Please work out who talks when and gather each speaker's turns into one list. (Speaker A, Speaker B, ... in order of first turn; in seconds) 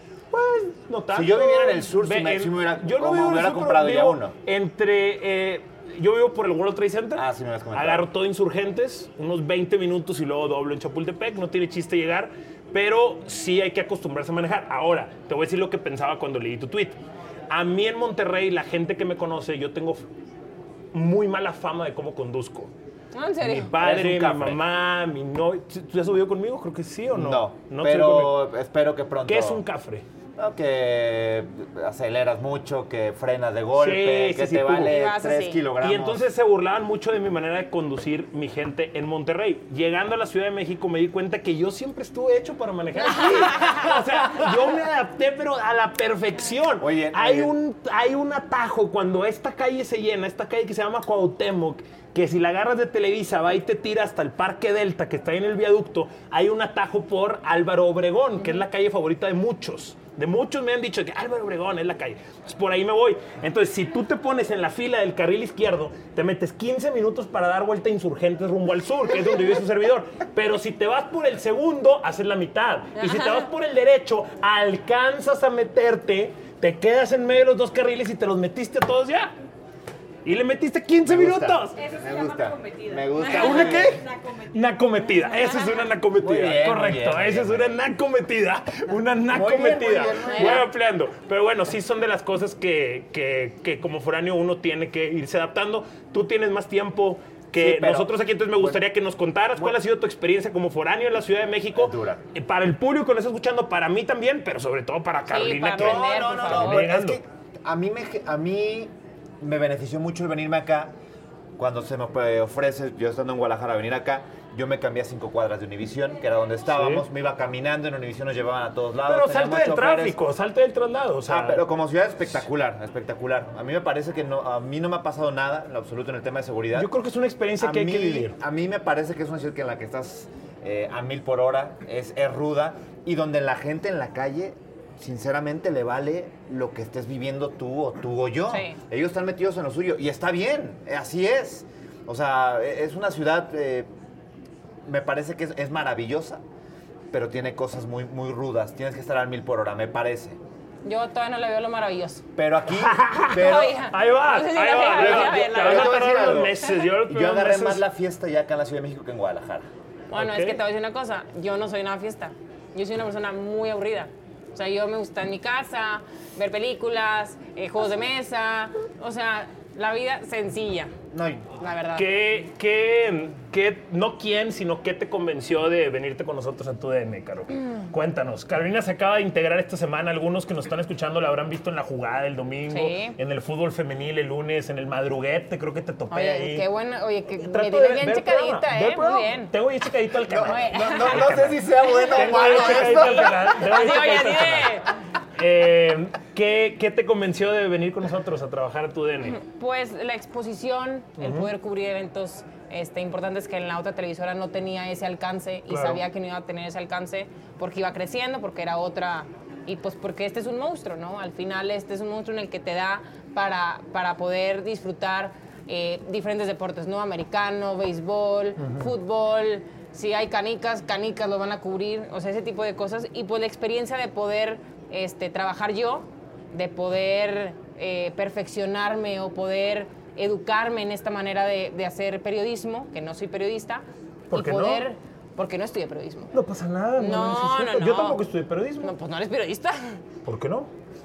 Speaker A: 0.3-17.0, 17.5-20.1, 20.9-22.7, 23.4-28.5, 29.2-30.0, 33.8-35.0, 35.8-79.3, 80.2-81.8, 83.3-107.2, 116.7-117.0, 119.1-121.6, 126.8-128.3, 152.7-157.8, 160.1-160.6, 172.0-186.7, 187.4-194.8, 195.4-199.4, 201.2-201.5, 205.7-206.0, 218.6-218.9, 234.3-234.8, 236.3-238.9, 240.2-240.7
Speaker B: 1.1-4.3, 7.2-8.1, 23.8-24.6, 27.1-29.6, 30.4-36.3, 46.8-47.5, 81.0-84.0, 86.2-87.8, 89.3-90.7, 97.5-98.8, 101.8-102.2, 105.7-110.9, 111.6-120.2, 121.3-126.9, 127.6-143.9, 144.9-146.4, 147.1-150.4, 152.4-153.8, 154.9-159.7, 171.1-171.5, 190.3-193.6
Speaker C: 23.1-23.7, 34.9-35.6, 43.4-43.9, 73.0-73.5, 90.3-90.7, 105.3-106.8, 138.5-138.8, 150.8-152.2, 153.3-156.7, 160.1-170.9, 171.6-172.1, 182.7-183.2, 186.1-189.5, 190.4-194.9, 199.2-236.3, 237.0-238.2, 238.8-240.0